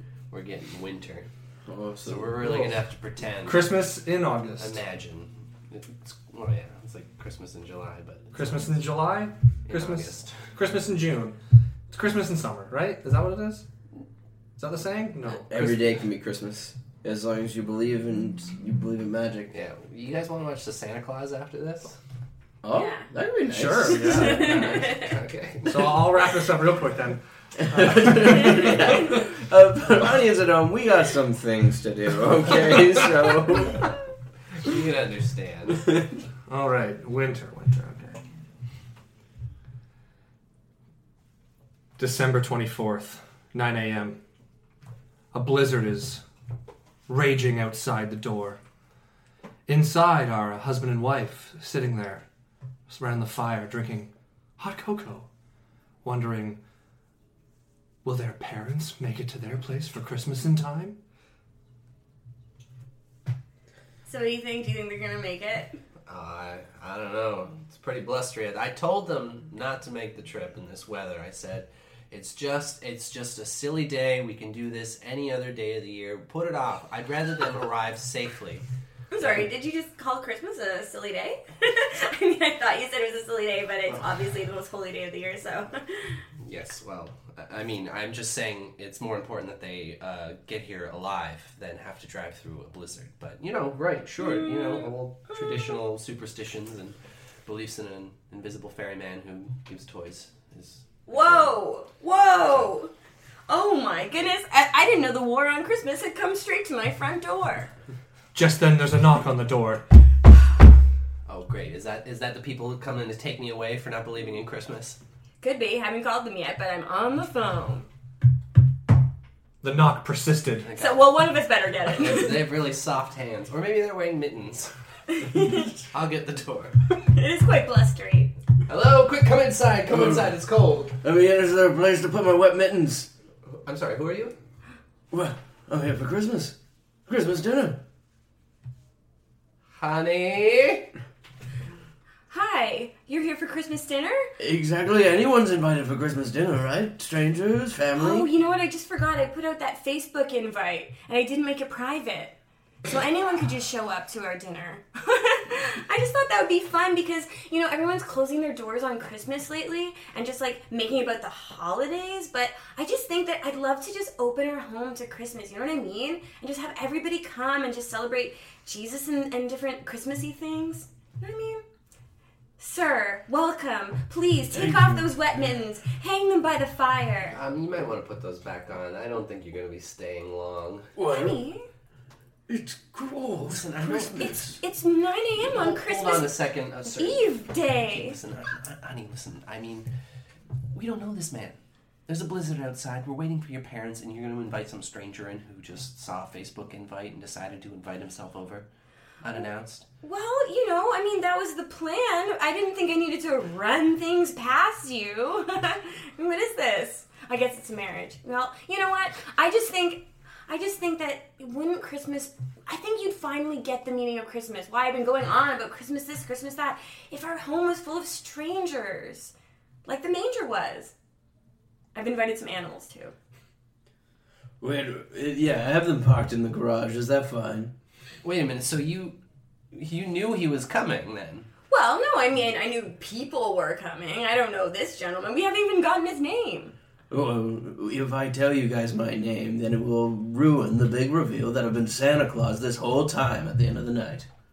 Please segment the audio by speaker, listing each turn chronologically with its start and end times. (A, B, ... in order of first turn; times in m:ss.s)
0:00.3-0:01.3 A
0:01.7-0:02.7 B
0:02.0-0:03.7 A
0:03.4-0:04.8 C
0:04.6-0:08.8 A
0:08.3-0:11.4 C
0:09.7-0:10.5 A
0:11.9-0:13.6 C
0:14.6-0:15.5 C
0:15.4-0:19.5 B
0:15.5-0:15.9 A
0:19.5-0:22.0 A
0:22.6-0:24.9 B
0:22.7-0:23.1 D
0:23.5-0:24.6 C
0:24.0-0:25.1 D
0:24.1-0:26.2 A
0:25.7-0:29.2 C
0:27.6-0:33.9 B
0:34.6-0:35.9 A
0:36.5-0:38.2 C
0:42.0-0:44.2 C
0:45.3-0:46.2 C
0:47.1-0:48.6 C
0:49.7-0:52.2 C
0:52.9-0:55.2 C
0:56.0-0:56.6 C
0:58.0-1:01.0 C
1:04.0-1:05.8 D
1:06.1-1:18.6 A
1:19.1-1:26.2 D
1:19.2-1:19.5 A
1:26.4-1:41.6 A
1:34.2-1:35.8 D
1:41.1-1:42.9 D
1:43.5-1:47.7 D
1:48.3-1:49.8 C
1:51.2-1:55.0 A
1:55.4-1:57.8 D
1:59.6-2:00.7 C
2:00.6-2:01.1 A
2:00.8-2:02.4 D
2:01.9-2:04.7 A
2:05.1-2:05.7 D
2:05.9-2:06.8 A
2:07.1-2:08.3 D
2:08.7-2:11.0 A
2:09.9-2:10.2 B
2:11.0-2:13.1 B
2:13.5-2:14.3 A
2:15.1-2:16.6 B
2:17.1-2:17.8 B
2:19.8-2:20.9 A
2:22.3-2:24.3 D
2:24.4-2:28.3 B
2:28.0-2:32.3 D
2:32.8-2:51.6 D
2:52.6-2:57.4 D
2:54.5-2:55.0 B
2:57.3-3:00.9 A
3:01.0-3:01.4 B
3:01.0-3:01.6 D
3:02.5-3:04.6 B
3:03.4-3:04.4 A
3:04.2-3:08.2 D
3:05.4-3:09.9 A
3:10.7-3:18.6 A
3:19.2-3:19.8 A
3:20.0-3:39.3 D
3:39.8-3:40.9 D
3:41.9-3:43.1 D
3:44.6-3:47.7 B
3:48.2-3:49.2 A
3:49.7-3:51.5 A
3:51.7-3:56.7 D
3:57.1-4:04.3 B